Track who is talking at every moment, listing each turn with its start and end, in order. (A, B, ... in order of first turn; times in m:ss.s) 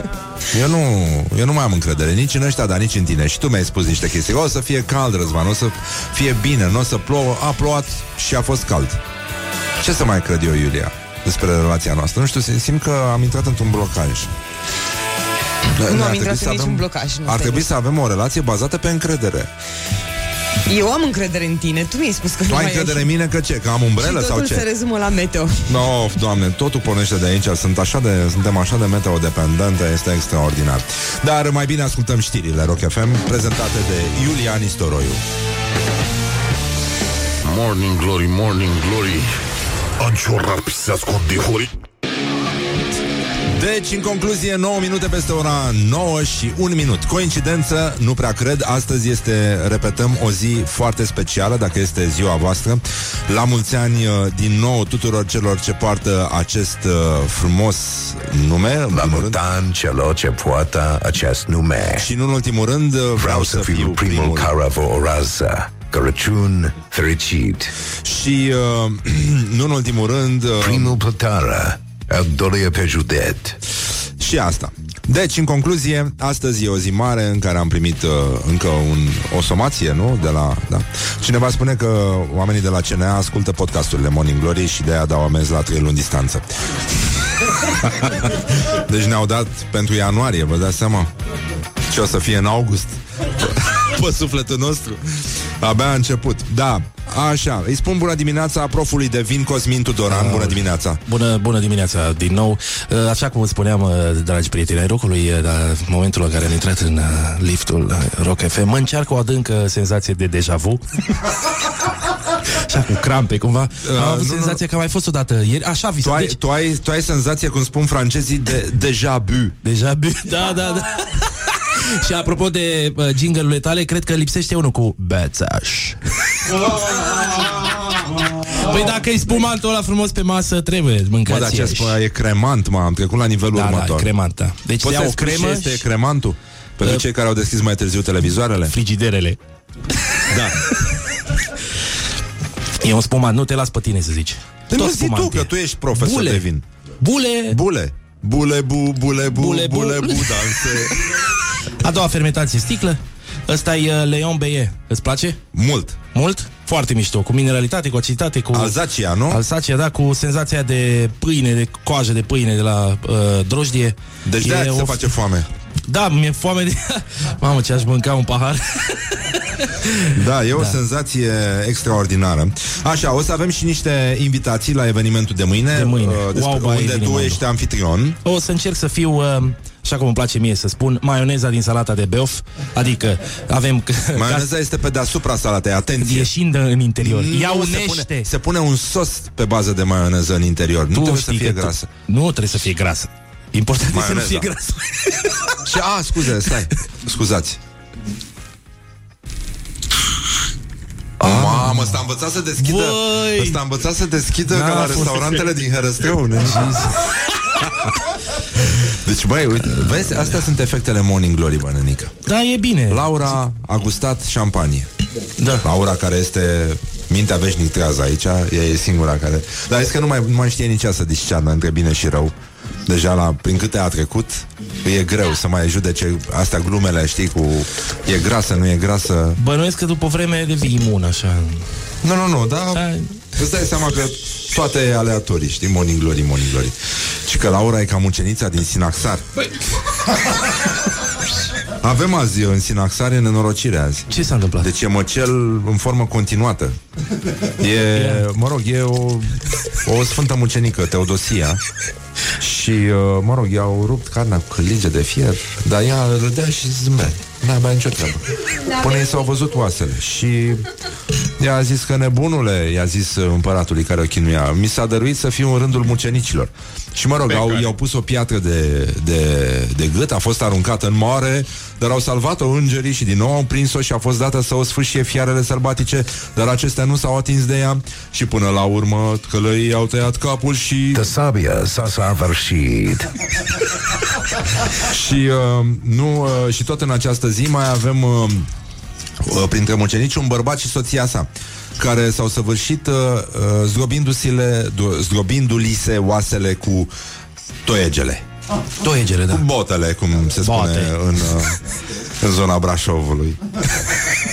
0:00.5-0:09.0 A
0:09.8-0:14.3 A
0:15.8-0:19.5 A
0:15.9-0:17.6 B
0:20.7-0:23.1 B
0:22.5-0:24.6 A
0:24.0-0:25.7 B
0:25.7-0:35.2 A
0:37.4-0:39.4 C
0:40.0-0:41.7 C
0:43.5-0:59.4 A
0:58.9-1:02.0 D
1:02.0-1:04.5 A
1:03.2-1:07.7 D
1:08.0-1:11.0 A
1:10.6-1:13.6 D
1:14.2-1:31.1 A
1:31.9-1:41.0 A
1:40.1-1:50.8 E
1:52.5-1:56.4 E
1:53.8-1:54.6 A
1:56.0-1:59.6 A
1:59.6-2:07.3 E
2:08.4-2:12.0 E
2:11.2-2:14.1 A
2:13.5-2:15.8 E
2:14.8-2:18.7 A
2:18.7-2:19.4 E
2:20.3-2:20.7 A
2:22.8-2:26.4 E
2:24.7-2:26.6 A
2:27.0-2:27.6 E
2:27.5-2:31.2 A
2:29.3-2:31.2 E
2:31.8-2:35.4 E
2:35.5-2:36.0 A
2:36.1-2:38.8 E
2:38.5-2:39.4 A
2:39.3-2:45.1 E
2:44.2-2:45.5 A
2:45.9-2:50.8 E
2:50.1-2:58.2 A
2:55.7-2:57.4 E
2:58.2-3:04.5 E
3:04.1-3:06.3 A
3:06.0-3:08.3 E
3:07.0-3:11.9 A
3:10.9-3:15.5 E
3:13.9-3:14.5 A
3:15.6-3:17.6 A
3:21.2-3:22.0 E
3:21.2-3:26.9 A
3:22.6-3:23.6 E
3:24.5-3:25.5 E
3:26.4-3:27.0 E
3:28.8-3:32.2 A
3:32.2-3:33.3 E
3:32.9-3:34.9 A
3:35.4-3:35.6 E
3:35.6-3:42.3 A
3:42.9-3:49.4 A
3:49.4-3:51.6 E
3:52.0-3:52.8 A
3:52.7-3:53.0 E
3:53.4-3:59.3 A
4:01.8-4:06.8 A
4:04.1-4:04.7 E
4:07.6-4:11.6 A
4:07.9-4:08.2 E
4:12.4-4:20.7 A
4:21.4-4:41.1 A
4:40.9-4:43.2 D
4:44.7-4:48.5 A
4:49.2-4:56.9 A
4:57.6-4:58.2 A
4:58.8-4:59.4 E
4:59.3-5:01.6 A
5:00.4-5:00.9 E
5:02.2-5:03.7 A